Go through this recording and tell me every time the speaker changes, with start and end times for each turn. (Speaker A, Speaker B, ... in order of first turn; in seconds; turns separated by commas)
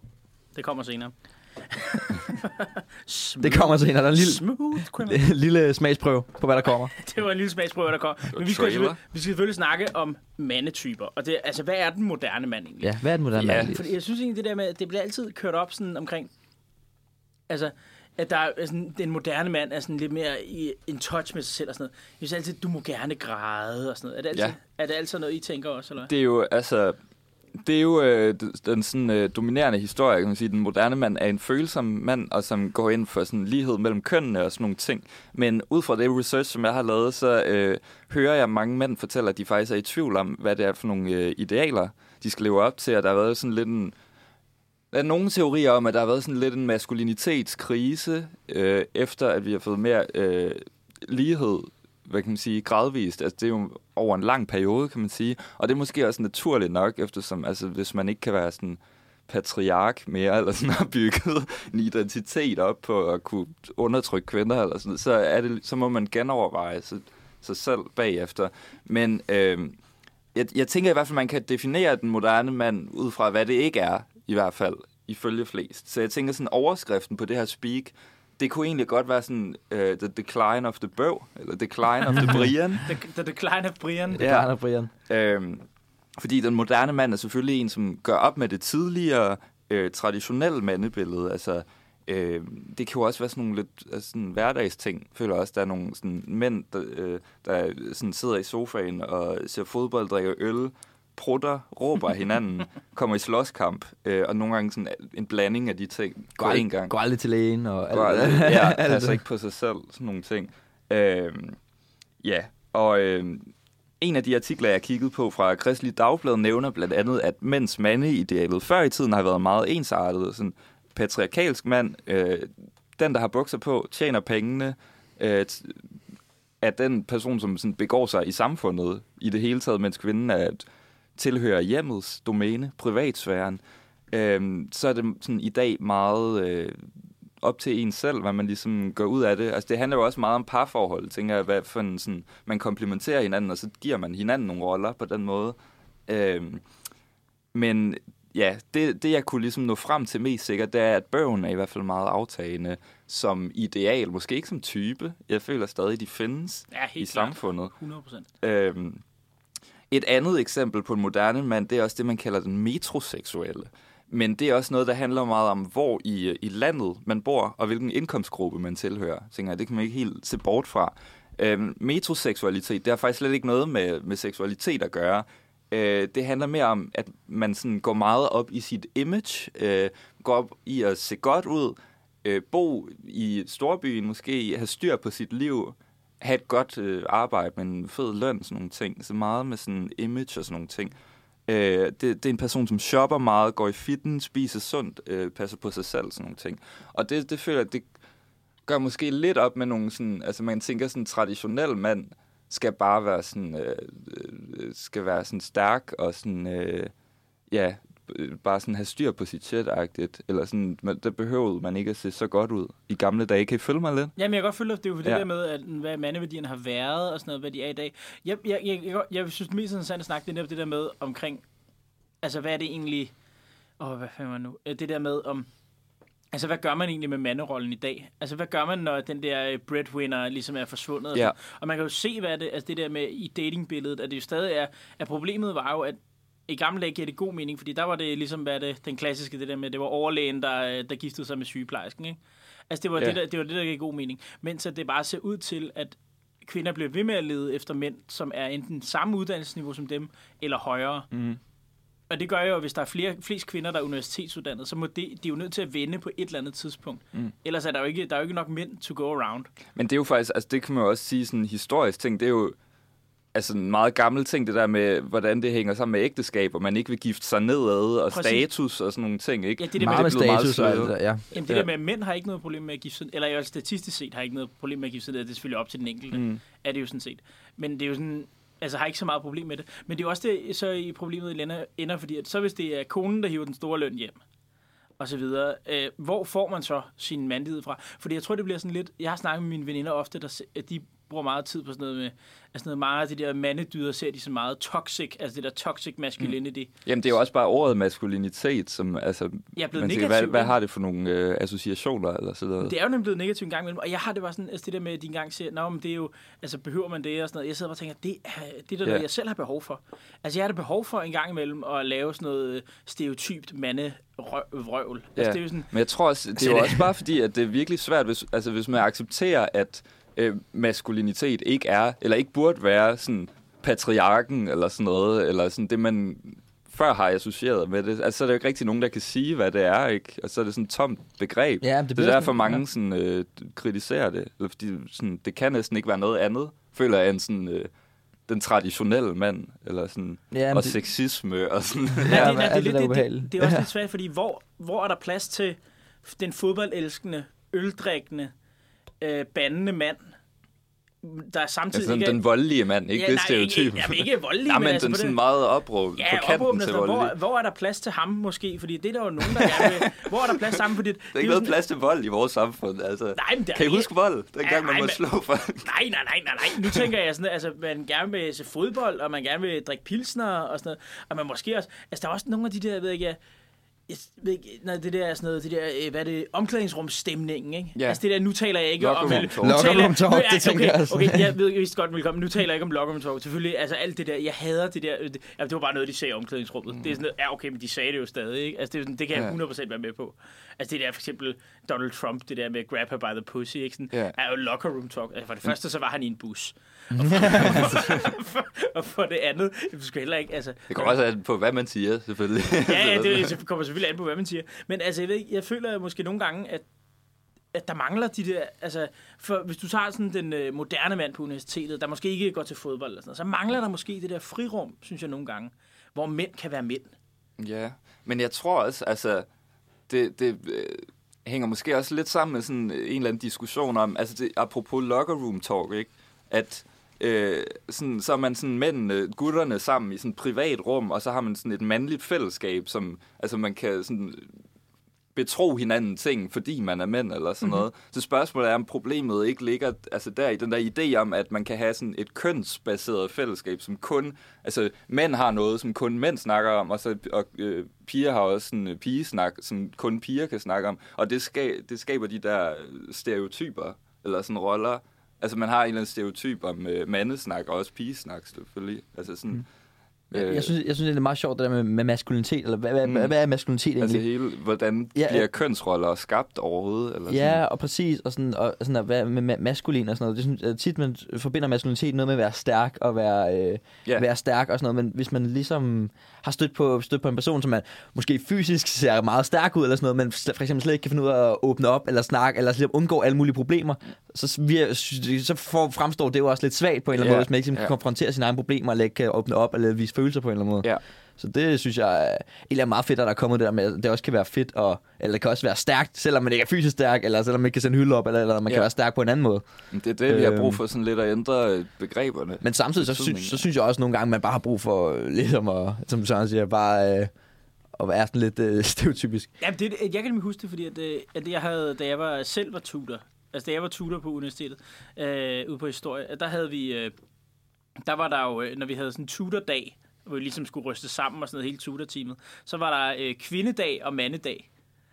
Speaker A: 0.5-5.2, Speaker B: 3.4-4.4, Speaker B: 5.0-6.9, Speaker A: 6.9-12.9, Speaker C: 8.3-9.0, Speaker B: 12.8-13.9, Speaker C: 13.4-13.7, Speaker A: 13.6-16.3, Speaker A: 17.5-26.1, Speaker C: 26.1-27.0, Speaker C: 27.6-43.9, Speaker C: 44.9-69.7, Speaker C: 70.3-82.9, Speaker A: 82.8-84.2, Speaker B: 84.2-84.9, Speaker C: 84.2-84.5, Speaker C: 85.1-85.6, Speaker C: 86.2-106.9, Speaker B: 106.4-109.2, Speaker C: 107.9-111.6, Speaker C: 112.2-125.8, Speaker C: 126.6-130.6, Speaker C: 131.2-133.6, Speaker C: 134.1-136.8, Speaker C: 137.4-145.6, Speaker C: 146.1-146.6, Speaker C: 147.5-157.7, Speaker A: 156.7-158.3, Speaker C: 158.4-159.0, Speaker C: 159.9-190.9, Speaker C: 191.5-197.9, Speaker C: 198.7-206.9, Speaker C: 207.5-214.1, Speaker A: 214.2-221.4, Speaker A: 222.2-223.1, Speaker A: 223.8-225.5, Speaker A: 226.3-242.2, Speaker A: 242.7-251.1, Speaker C: 251.1-251.4, Speaker A: 252.1-259.5, Speaker C: 259.8-262.6, Speaker C: 263.3-271.7, Speaker A: 268.1-268.4, Speaker A: 269.6-270.3, Speaker B: 269.8-271.2, Speaker A: 271.3-284.2, Speaker C: 276.1-276.4, Speaker A: 285.0-296.7, Speaker C: 296.9-302.7, Speaker A: 299.6-300.5, Speaker A: 302.6-315.7, Speaker C: 315.2-337.7, Speaker B: 331.6-332.6, Speaker C: 338.3-342.4, Speaker B: 340.3-340.8, Speaker B: 342.0-343.6, Speaker A: 342.1-348.3, Speaker A: 349.0-350.1, Speaker A: 351.0-352.2, Speaker C: 351.7-357.1, Speaker A: 352.9-355.2, Speaker A: 355.9-361.5, Speaker C: 359.3-360.6, Speaker C: 361.1-365.7, Speaker A: 363.1-363.9, Speaker A: 364.4-365.0, Speaker A: 365.6-373.2, Speaker A: 373.9-400.9, Speaker C: 378.8-379.8, Speaker B: 379.1-381.3, Speaker B: 397.1-397.6, Speaker C: 397.2-397.8, Speaker C: 400.7-403.4, Speaker A: 402.6-406.6, Speaker A: 407.5-416.9, Speaker C: 417.4-419.2, Speaker C: 419.9-434.3, Speaker C: 435.1-459.4, Speaker C: 460.1-460.5, Speaker B: 460.1-464.0, Speaker C: 462.8-463.1, Speaker C: 463.8-467.4, Speaker B: 464.9-465.3, Speaker B: 467.1-499.4, Speaker C: 486.9-487.7, Speaker C: 499.7-503.4, Speaker B: 500.1-500.6, Speaker B: 502.4-507.1, Speaker B: 507.8-509.3, Speaker A: 509.4-516.9, Speaker A: 517.8-524.5